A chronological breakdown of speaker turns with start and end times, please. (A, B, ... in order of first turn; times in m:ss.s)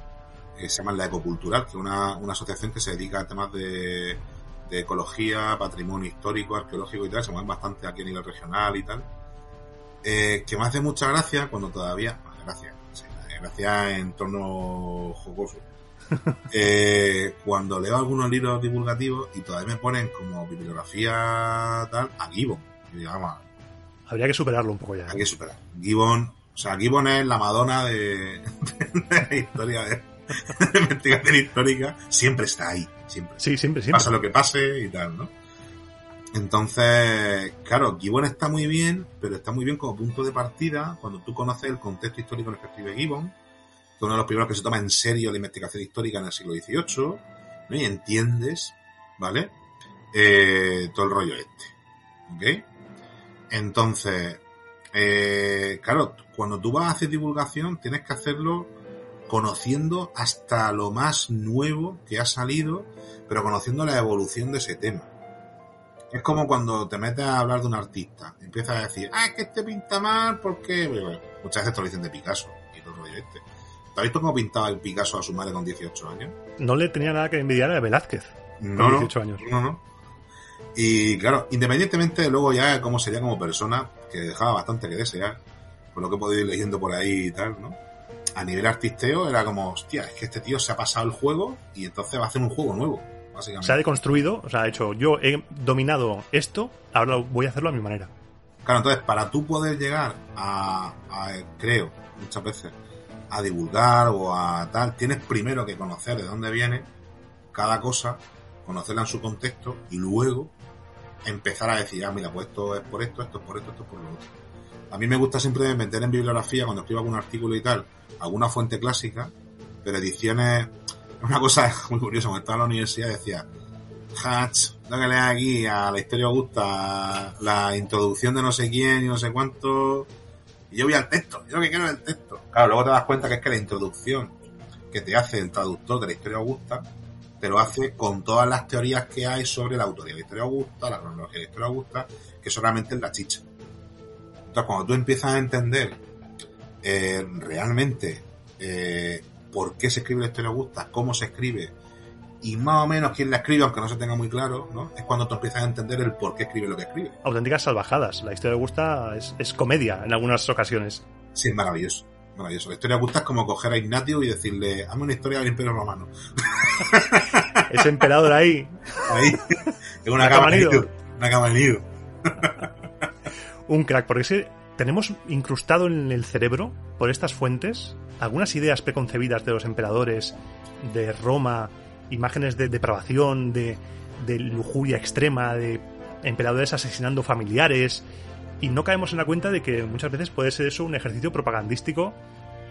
0:00.6-0:09.1 A
0:10.0-0:15.6 A
0:16.5-0:23.4 A
0:24.1-0:25.2 B
0:25.1-0:35.3 A
0:33.4-0:34.1 B
0:36.3-0:43.3 A
0:44.0-0:49.5 A
0:50.1-0:51.7 A
0:52.3-0:52.6 A
0:53.5-0:58.7 A
0:59.3-1:05.1 A
1:06.1-1:16.4 A
1:16.6-1:19.4 B
1:18.6-1:19.8 A
1:20.7-1:25.4 A
1:25.9-1:27.8 A
1:28.4-1:33.8 A
1:33.6-1:38.1 B
1:38.6-1:42.7 A
1:43.3-1:46.9 A
1:47.5-1:50.5 A
1:51.2-1:54.3 A
1:54.9-1:59.3 A
1:59.8-2:03.5 A
2:04.1-2:10.1 A
2:10.7-2:14.3 A
2:14.9-2:16.9 A
2:17.4-2:23.4 A
2:24.5-2:26.0 A
2:26.8-2:31.7 A
2:32.4-2:37.1 A
2:37.2-2:41.0 B
2:41.3-2:47.6 A
2:47.6-2:49.2 B
2:49.1-2:52.6 A
2:50.2-2:50.9 B
2:53.7-3:08.0 B
3:08.6-3:12.2 B